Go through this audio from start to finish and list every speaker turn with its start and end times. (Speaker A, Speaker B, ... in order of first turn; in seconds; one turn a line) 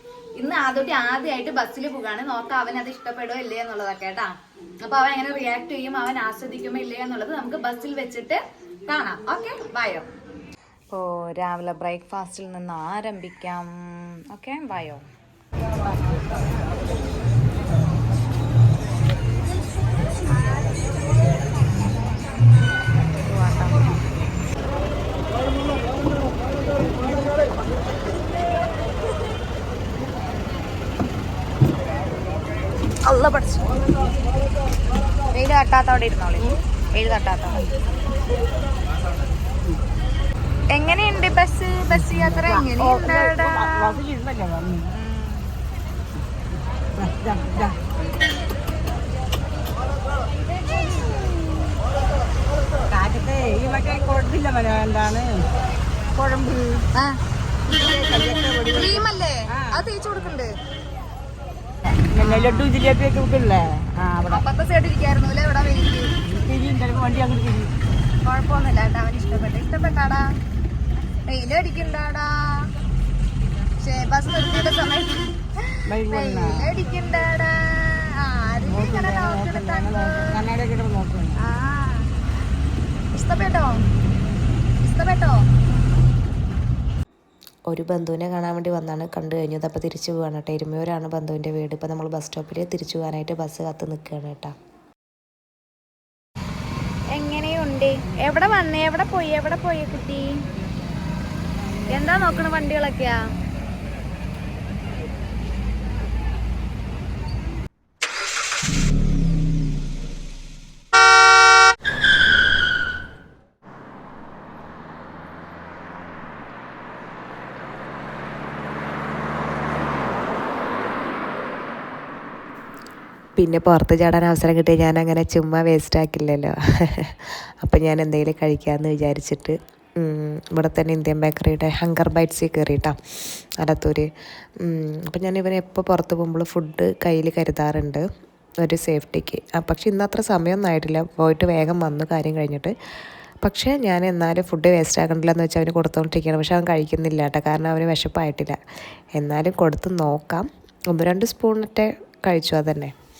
Speaker A: 0.4-10.1
Speaker A: 10.9-15.0
Speaker A: 23.2-23.9
Speaker A: 33.0-33.7
Speaker A: 35.3-37.6
Speaker A: 40.7-44.0
Speaker B: 42.0-44.9
Speaker A: 44.9-45.4
Speaker B: 47.0-47.8
Speaker B: 52.9-55.5
Speaker B: 56.1-56.9
Speaker A: 56.9-57.2
Speaker B: 57.7-59.9
Speaker A: 58.6-60.5
Speaker B: 62.1-64.4
Speaker A: 62.2-62.7
Speaker A: 64.2-66.1
Speaker B: 66.2-67.7
Speaker A: 68.2-70.3
Speaker A: 71.2-72.7
Speaker A: 73.8-80.4
Speaker B: 75.9-76.7
Speaker B: 78.6-81.4
Speaker A: 81.3-82.1
Speaker A: 83.1-83.8
Speaker A: 84.8-85.4
Speaker C: 87.7-94.5
Speaker A: 97.1-100.4
Speaker A: 101.9-103.2
Speaker C: 123.4-138.0
Speaker C: 138.6-142.7
Speaker C: 143.4-148.6
Speaker C: 149.2-152.9